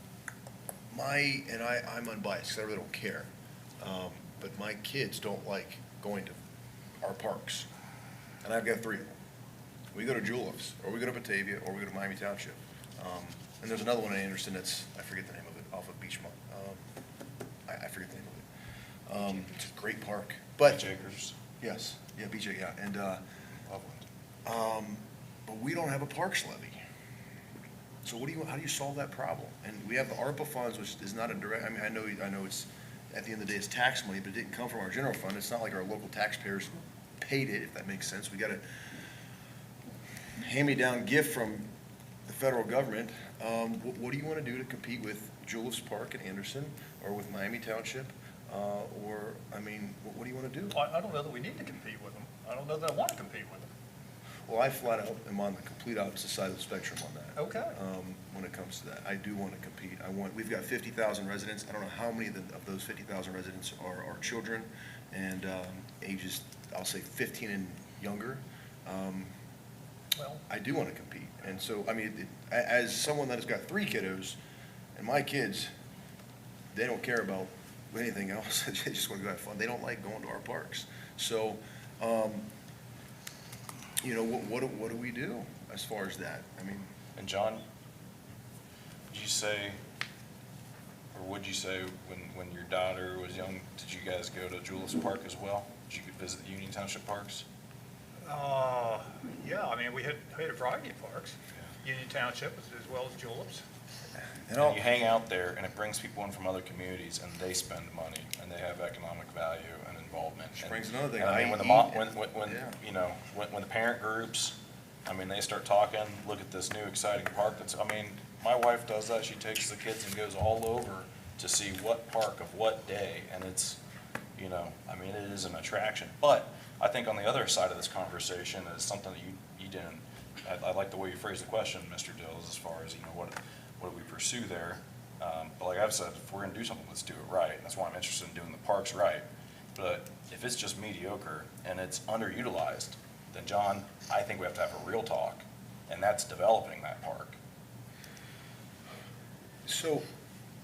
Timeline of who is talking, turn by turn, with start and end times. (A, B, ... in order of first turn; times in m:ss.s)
0:00.9-0:03.3 A
0:03.8-0:06.4 A
0:07.0-0:07.7 A
0:08.4-0:09.1 A
0:09.9-0:16.8 A
0:17.7-0:18.4 A
0:19.1-0:20.8 A
0:20.6-0:21.4 B
0:21.6-0:23.2 A
0:23.6-0:24.0 B
0:24.4-0:26.8 A
0:28.0-0:38.6 A
0:40.4-0:41.7 A
0:42.2-0:50.8 A
0:50.7-0:53.7 C
0:54.5-1:09.3 A
0:57.4-0:57.7 C
1:10.2-1:10.4 C
1:10.5-1:14.4 A
1:14.9-1:15.7 A
1:16.7-1:22.5 A
1:24.0-1:26.9 A
1:27.2-1:27.6 B
1:29.1-1:29.8 B
1:31.1-1:37.4 B
1:38.2-1:43.6 C
1:44.5-1:44.8 A
1:44.6-2:03.8 B
1:50.6-1:52.8 A
2:04.4-2:27.4 B
2:29.6-2:30.0 A